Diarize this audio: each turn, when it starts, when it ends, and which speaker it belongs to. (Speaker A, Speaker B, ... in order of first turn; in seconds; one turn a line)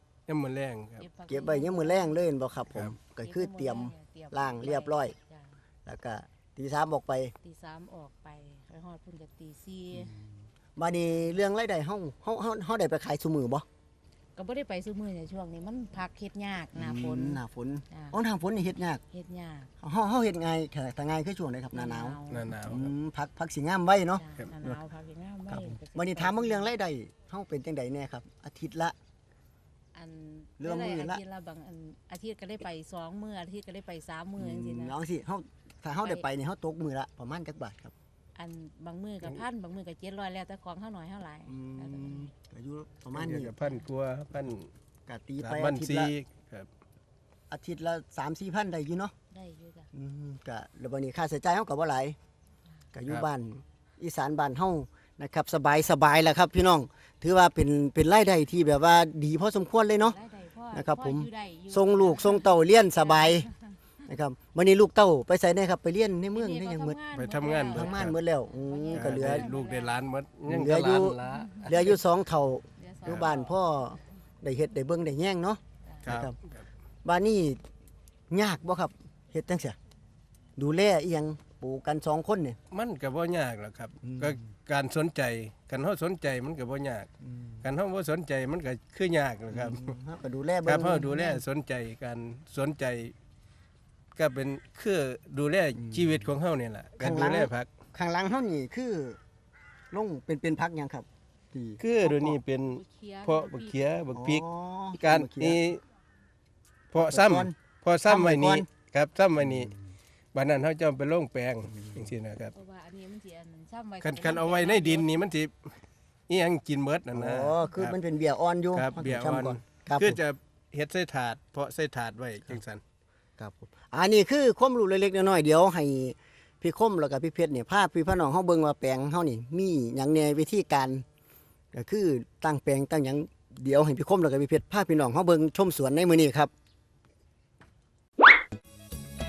Speaker A: 0.3-1.1
Speaker B: 1.0-2.2
Speaker C: 1.3-5.2
Speaker B: 3.2-5.5
Speaker C: 5.8-7.3
Speaker B: 7.4-10.1
Speaker C: 9.9-13.7
Speaker B: 14.4-18.2
Speaker C: 16.7-19.0
Speaker B: 19.1-19.7
Speaker C: 19.8-24.2
Speaker B: 21.7-22.5
Speaker A: 22.3-22.8
Speaker B: 24.2-26.7
Speaker C: 25.5-28.9
Speaker B: 29.9-35.0
Speaker C: 30.6-31.2
Speaker C: 34.4-37.9
Speaker B: 38.4-42.3
Speaker C: 41.5-43.5
Speaker A: 43.1-44.7
Speaker C: 45.1-46.1
Speaker A: 45.4-46.7
Speaker C: 47.5-49.1
Speaker B: 49.3-49.9
Speaker C: 49.9-52.2
Speaker C: 52.9-60.2
Speaker B: 60.1-63.5
Speaker C: 60.7-63.5
Speaker C: 64.1-67.0
Speaker B: 66.3-70.0
Speaker A: 67.1-68.2
Speaker C: 67.7-69.5
Speaker A: 68.9-71.8
Speaker C: 70.5-76.3
Speaker B: 71.2-71.7
Speaker B: 72.8-73.6
Speaker A: 76.1-76.3
Speaker C: 77.0-77.6
Speaker C: 78.3-79.8
Speaker C: 80.6-82.6
Speaker A: 82.7-87.1
Speaker C: 84.0-84.4
Speaker C: 87.2-87.6
Speaker A: 87.6-89.8
Speaker C: 89.5-91.4
Speaker A: 90.7-93.1
Speaker A: 94.2-97.7
Speaker C: 95.8-96.3
Speaker C: 97.0-99.2
Speaker C: 99.9-102.4
Speaker A: 101.8-104.4
Speaker B: 102.7-103.8
Speaker C: 104.1-105.6
Speaker A: 105.0-105.8
Speaker A: 106.9-109.7
Speaker C: 107.0-108.7
Speaker A: 110.3-112.5
Speaker C: 111.8-112.1
Speaker B: 112.5-115.1
Speaker A: 114.0-115.5
Speaker A: 116.3-118.0
Speaker C: 117.1-120.2
Speaker A: 118.8-122.8
Speaker C: 123.4-131.0
Speaker C: 131.7-136.5